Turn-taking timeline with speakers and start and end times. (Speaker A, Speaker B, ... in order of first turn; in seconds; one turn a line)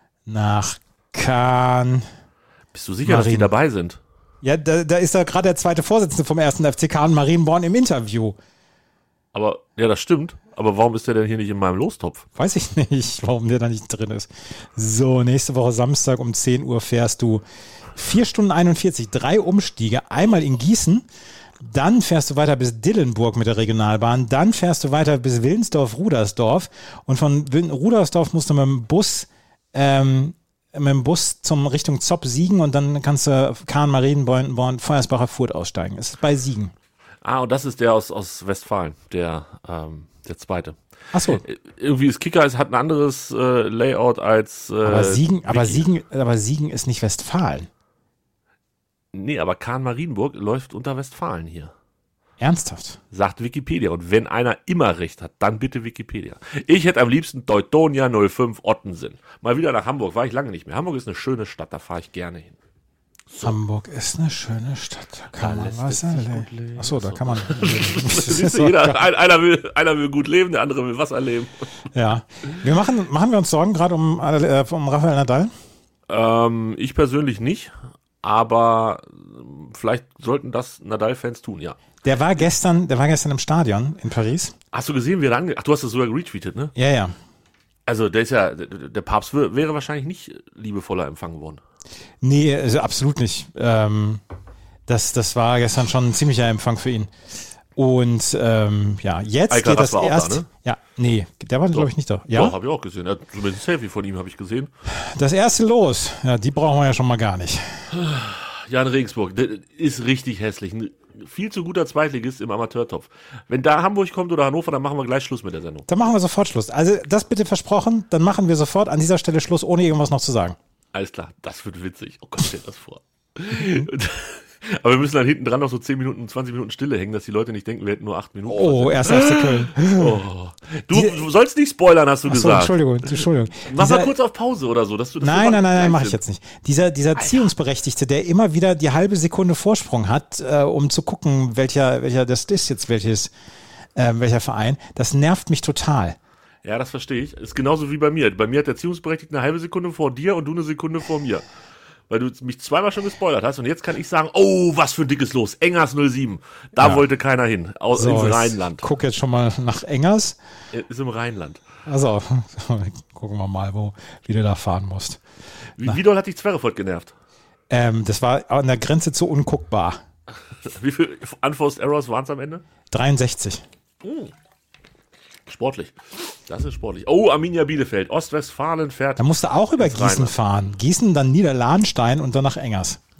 Speaker A: 0.3-2.1
Speaker B: 2.7-4.0
Speaker A: 3.0-3.5
Speaker A: 4.4-8.4
Speaker B: 9.3-12.3
Speaker A: 12.4-21.1
Speaker A: 21.6-36.7
Speaker B: 37.2-40.8
Speaker A: 41.1-41.4
Speaker B: 41.4-45.9
Speaker A: 44.8-47.7
Speaker B: 49.1-51.7
Speaker A: 52.4-53.0
Speaker B: 53.1-62.6
Speaker B: 63.3-63.6
Speaker A: 63.4-69.0
Speaker B: 65.3-71.6
Speaker A: 71.9-75.5
Speaker B: 76.1-81.8
Speaker A: 82.0-84.5
Speaker B: 84.7-86.7
Speaker A: 86.8-87.2
Speaker B: 87.9-91.6
Speaker A: 92.2-94.2
Speaker A: 94.9-97.1
Speaker A: 97.8-102.6
Speaker B: 99.5-100.5
Speaker B: 101.7-104.7
Speaker A: 104.9-107.9
Speaker B: 107.9-115.9
Speaker A: 115.9-120.6
Speaker B: 120.9-136.2
Speaker A: 123.5-123.9
Speaker A: 128.5-130.2
Speaker A: 130.9-131.2
Speaker A: 132.3-134.2
Speaker A: 135.2-143.3
Speaker A: 143.9-146.2
Speaker B: 146.7-151.4
Speaker B: 152.1-158.9
Speaker A: 156.8-157.1
Speaker A: 157.9-160.4
Speaker B: 160.7-161.6
Speaker A: 161.9-165.2
Speaker B: 165.8-167.1
Speaker A: 167.7-170.0
Speaker B: 170.7-172.6
Speaker A: 172.9-173.6
Speaker B: 174.0-174.3
Speaker B: 175.5-180.3
Speaker A: 179.2-183.0